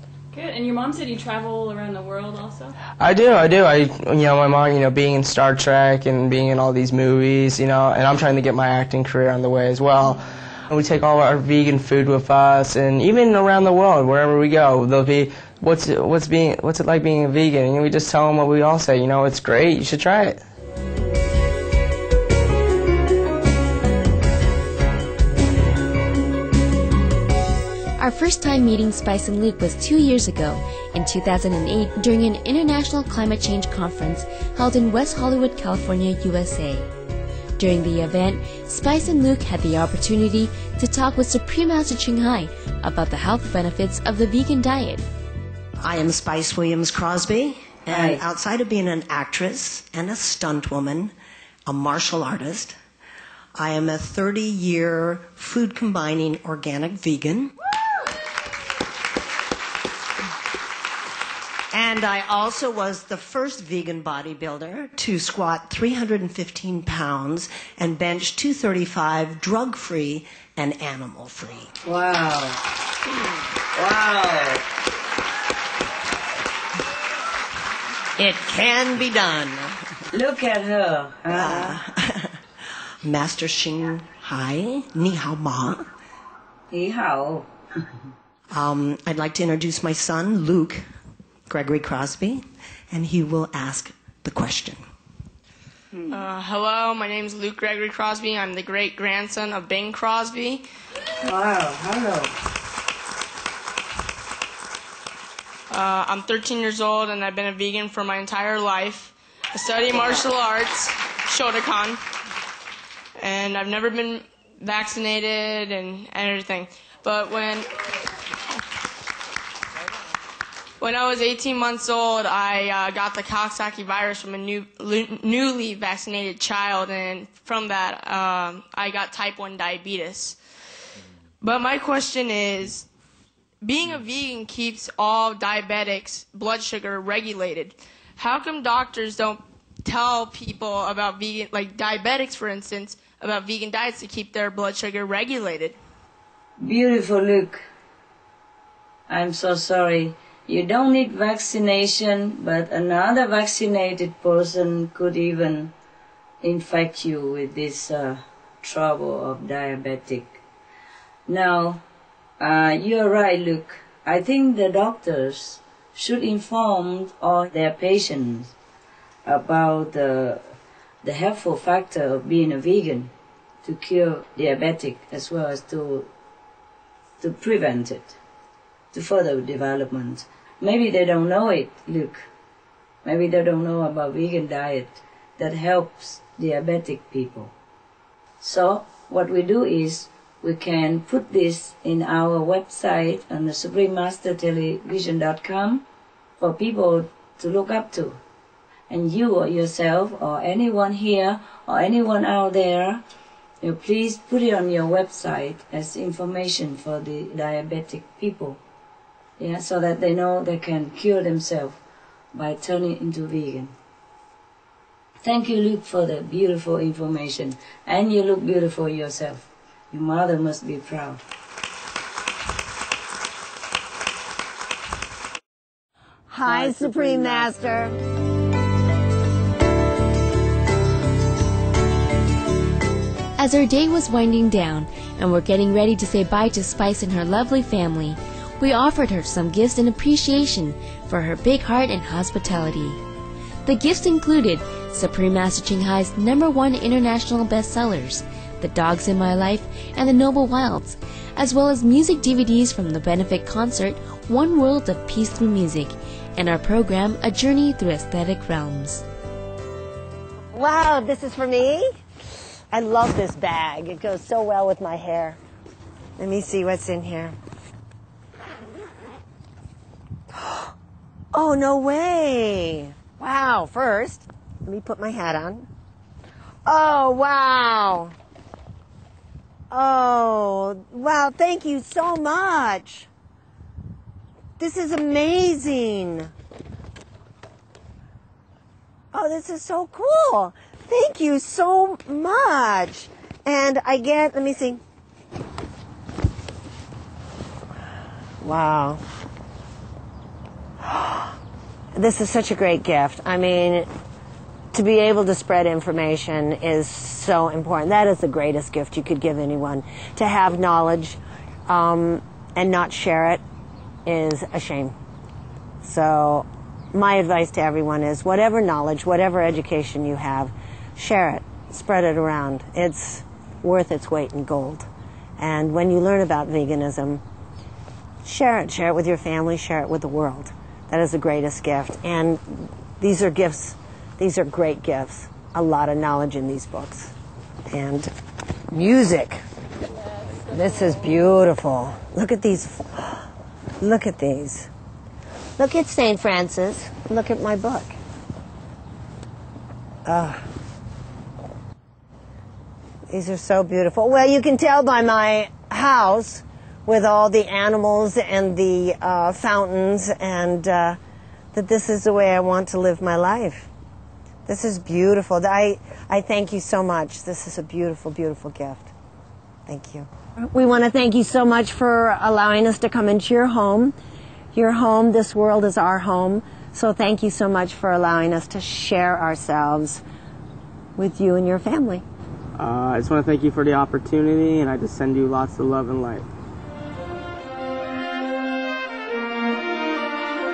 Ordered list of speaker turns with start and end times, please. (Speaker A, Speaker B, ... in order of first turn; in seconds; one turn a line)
Speaker A: 0.3-2.7
Speaker B: 3.0-10.2
Speaker B: 10.7-20.4
Speaker C: 28.0-36.9
Speaker C: 37.6-45.0
Speaker D: 45.8-51.1
Speaker E: 47.9-48.2
Speaker D: 51.7-52.8
Speaker D: 53.6-57.5
Speaker D: 61.7-71.7
Speaker E: 71.8-72.6
Speaker E: 73.8-74.6
Speaker D: 78.2-79.8
Speaker E: 80.1-81.7
Speaker D: 81.3-82.4
Speaker D: 83.0-85.9
Speaker E: 86.7-87.5
Speaker D: 88.5-90.8
Speaker D: 91.5-94.8
Speaker F: 96.1-100.6
Speaker E: 101.2-102.3
Speaker F: 105.7-112.0
Speaker F: 113.2-117.7
Speaker F: 120.8-130.4
Speaker F: 131.4-132.9
Speaker F: 133.6-145.8
Speaker E: 146.7-147.6
Speaker E: 149.1-155.7
Speaker E: 156.4-160.4
Speaker E: 161.3-161.8
Speaker E: 162.4-168.5
Speaker E: 169.3-170.4
Speaker E: 171.0-173.1
Speaker E: 173.6-176.1
Speaker E: 177.2-178.2
Speaker E: 178.9-182.3
Speaker E: 183.1-187.5
Speaker E: 188.4-195.8
Speaker E: 196.4-198.2
Speaker E: 198.9-203.0
Speaker E: 203.6-208.6
Speaker E: 209.4-211.8
Speaker E: 212.3-213.7
Speaker E: 215.2-221.2
Speaker D: 226.3-228.0
Speaker E: 226.5-227.5
Speaker C: 233.4-243.0
Speaker C: 243.7-259.0
Speaker D: 260.5-261.9
Speaker D: 262.7-265.4
Speaker D: 266.2-267.4
Speaker D: 270.3-270.7
Speaker D: 271.3-275.7
Speaker D: 276.6-278.1
Speaker D: 279.7-283.1
Speaker D: 284.6-286.3
Speaker D: 289.1-294.8
Speaker D: 298.4-299.0
Speaker D: 300.8-301.3
Speaker D: 301.9-303.9
Speaker D: 304.7-313.4
Speaker D: 314.1-314.9
Speaker D: 315.8-324.9
Speaker D: 325.4-327.2
Speaker D: 328.2-337.1
Speaker D: 337.7-338.1
Speaker D: 338.7-339.4
Speaker D: 340.4-343.3
Speaker D: 343.8-344.7
Speaker D: 345.6-348.0
Speaker D: 350.1-350.4
Speaker D: 353.1-361.0
Speaker D: 361.5-363.7
Speaker D: 364.5-368.9
Speaker D: 369.7-374.0
Speaker D: 374.5-380.0
Speaker D: 381.0-382.0
Speaker B: 382.6-386.3